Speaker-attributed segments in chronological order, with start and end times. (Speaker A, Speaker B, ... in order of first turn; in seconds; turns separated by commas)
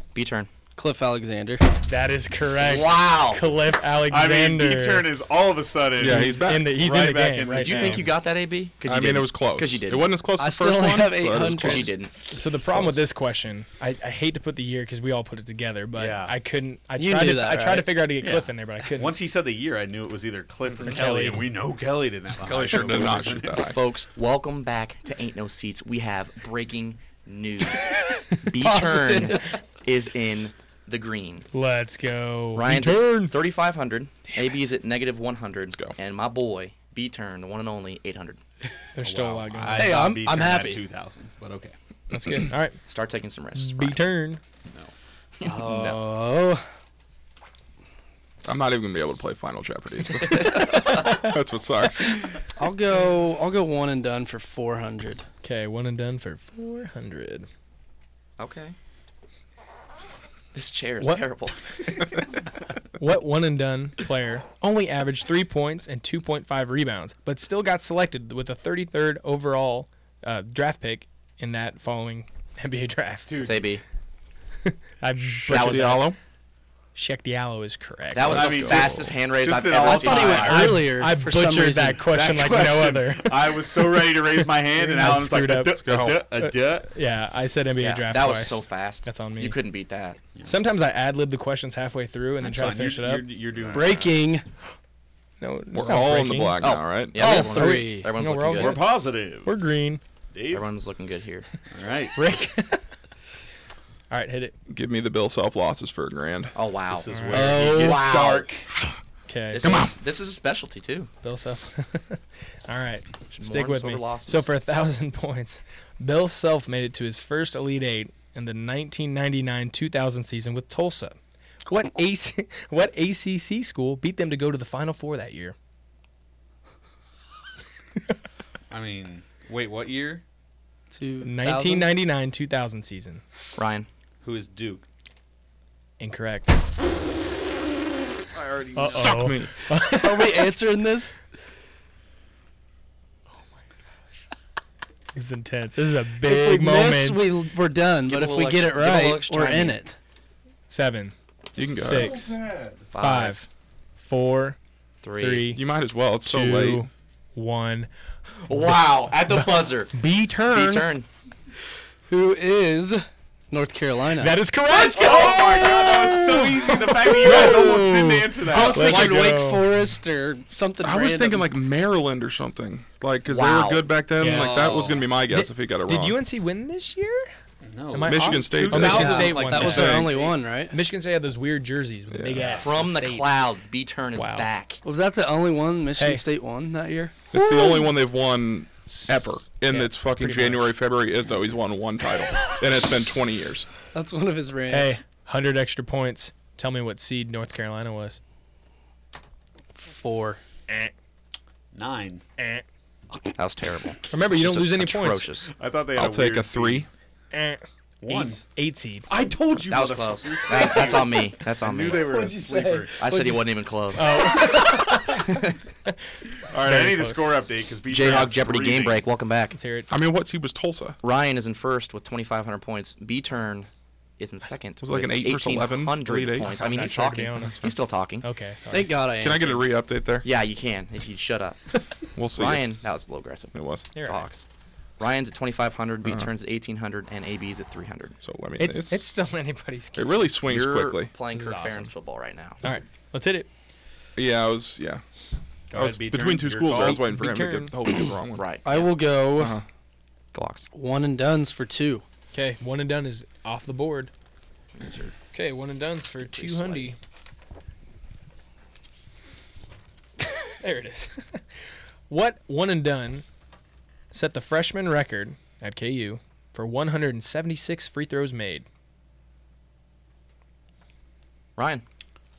Speaker A: 0.1-0.5, Speaker B: 0.8-1.7, Speaker C: 1.8-5.1, Speaker A: 2.5-3.4, Speaker D: 4.0-8.1, Speaker E: 6.0-6.7, Speaker C: 6.0-8.1, Speaker A: 7.6-10.2, Speaker E: 8.8-11.9, Speaker B: 10.4-11.9, Speaker A: 11.6-12.1, Speaker C: 12.3-19.2, Speaker E: 12.7-13.0, Speaker D: 15.9-16.4, Speaker B: 17.0-18.1, Speaker D: 18.2-23.6, Speaker C: 20.7-21.5, Speaker E: 22.4-23.8, Speaker A: 23.5-31.5, Speaker B: 28.6-29.5, Speaker C: 31.5-33.4, Speaker A: 32.5-38.4, Speaker C: 39.0-40.1, Speaker D: 39.0-41.8, Speaker B: 39.8-40.8, Speaker C: 42.1-42.8, Speaker A: 42.9-44.0, Speaker C: 43.5-44.4, Speaker D: 44.7-44.9, Speaker A: 45.4-46.0, Speaker B: 45.4-46.7, Speaker E: 48.5-52.4, Speaker A: 50.3-51.2, Speaker C: 50.4-51.3, Speaker B: 52.6-55.3, Speaker C: 55.4-57.5, Speaker A: 58.4-58.8, Speaker A: 60.5-62.4, Speaker C: 63.0-73.4, Speaker D: 73.3-73.7, Speaker A: 73.4-73.8, Speaker C: 74.7-76.1, Speaker E: 75.3-76.2, Speaker A: 75.5-76.1, Speaker C: 77.0-78.8, Speaker A: 78.1-80.7, Speaker D: 78.3-80.8, Speaker E: 78.7-79.0, Speaker B: 79.8-82.0, Speaker C: 80.4-85.8, Speaker D: 82.0-86.9, Speaker E: 85.8-86.2, Speaker C: 86.4-89.6, Speaker A: 87.8-90.2, Speaker C: 90.4-93.3, Speaker D: 92.4-94.1, Speaker A: 93.6-94.2, Speaker B: 93.7-94.5, Speaker C: 95.4-96.6, Speaker E: 95.7-97.3, Speaker A: 96.6-98.9, Speaker B: 97.2-98.1, Speaker C: 97.2-100.0, Speaker D: 98.5-99.6, Speaker D: 100.3-100.7, Speaker A: 100.5-101.5, Speaker D: 101.7-102.2, Speaker C: 102.2-102.8, Speaker C: 104.1-104.5, Speaker E: 104.7-106.5, Speaker A: 106.5-108.5, Speaker D: 106.9-108.7, Speaker C: 107.1-107.6, Speaker B: 107.3-108.1, Speaker C: 109.3-109.7, Speaker A: 109.5-111.1, Speaker E: 109.6-110.0, Speaker C: 111.2-125.5, Speaker A: 113.3-114.5, Speaker D: 128.7-130.2, Speaker B: 130.9-131.9, Speaker C: 131.2-133.2, Speaker A: 133.6-133.9, Speaker D: 134.2-134.8, Speaker C: 136.0-136.6, Speaker D: 138.3-139.2, Speaker C: 138.7-140.5, Speaker E: 138.8-139.5, Speaker B: 139.9-141.1, Speaker C: 145.2-147.3, Speaker B: 146.2-150.0, Speaker A: 148.1-149.8, Speaker C: 150.7-151.2, Speaker E: 151.6-152.3, Speaker C: 151.8-152.4, Speaker D: 152.0-152.8, Speaker A: 152.9-153.4, Speaker C: 153.0-153.5, Speaker C: 154.0-154.6, Speaker A: 155.0-155.5, Speaker C: 155.1-155.6, Speaker E: 155.5-156.9, Speaker C: 156.2-157.9, Speaker A: 158.4-159.9, Speaker C: 159.3-160.9, Speaker A: 160.5-161.1, Speaker B: 162.1-164.4, Speaker C: 164.2-167.9, Speaker D: 164.7-169.0, Speaker B: 167.2-171.6, Speaker C: 168.5-169.7, Speaker E: 168.6-169.4, Speaker E: 170.8-176.2, Speaker A: 173.3-173.9, Speaker C: 174.2-174.6, Speaker D: 174.2-175.2, Speaker C: 175.3-177.3, Speaker D: 177.6-180.4, Speaker C: 177.9-180.1, Speaker E: 178.0-180.1, Speaker B: 179.1-180.8, Speaker C: 180.7-183.3, Speaker E: 182.1-182.7, Speaker D: 182.4-182.7, Speaker A: 182.6-184.8, Speaker C: 184.2-184.5, Speaker B: 184.8-187.2, Speaker C: 186.0-186.2, Speaker E: 187.3-193.7, Speaker C: 187.4-187.8, Speaker C: 188.9-190.7, Speaker B: 193.9-195.0, Speaker C: 194.7-198.2, Speaker B: 199.8-200.4, Speaker D: 201.7-202.2, Speaker C: 202.4-202.6, Speaker A: 203.3-205.5, Speaker C: 204.1-205.3, Speaker D: 205.5-206.9, Speaker E: 205.9-206.9, Speaker C: 207.3-209.1, Speaker D: 208.0-208.4, Speaker D: 209.1-213.0, Speaker A: 209.7-212.1, Speaker B: 211.9-212.9, Speaker A: 213.0-214.6, Speaker C: 213.1-213.4, Speaker C: 213.9-215.3, Speaker A: 215.2-215.6, Speaker D: 216.5-219.0, Speaker C: 216.6-217.4, Speaker A: 217.9-219.6, Speaker C: 219.5-219.9, Speaker E: 219.9-221.0, Speaker A: 221.0-228.3, Speaker E: 224.8-226.6, Speaker C: 226.4-228.9, Speaker B: 228.7-229.7, Speaker E: 229.2-230.3, Speaker A: 230.2-231.8, Speaker E: 232.2-232.7, Speaker A: 232.3-234.4, Speaker E: 233.5-233.9, Speaker C: 233.9-234.3, Speaker A: 235.0-238.2, Speaker E: 238.2-239.1, Speaker C: 238.6-240.3, Speaker E: 239.9-241.1, Speaker A: 240.4-242.6, Speaker C: 241.3-241.9, Speaker C: 242.6-243.5, Speaker E: 244.2-245.0, Speaker D: 245.7-247.1, Speaker E: 245.7-248.6, Speaker C: 246.7-247.8, Speaker A: 248.4-249.0, Speaker B: 248.6-249.6, Speaker E: 249.3-249.6, Speaker A: 250.3-250.6, Speaker B: 250.7-252.0, Speaker C: 252.3-254.1, Speaker A: 254.8-255.1, Speaker C: 255.3-257.0, Speaker A: 256.2-256.9, Speaker C: 260.6-261.4, Speaker C: 262.1-263.2, Speaker C: 264.1-268.7, Speaker A: 271.6-271.8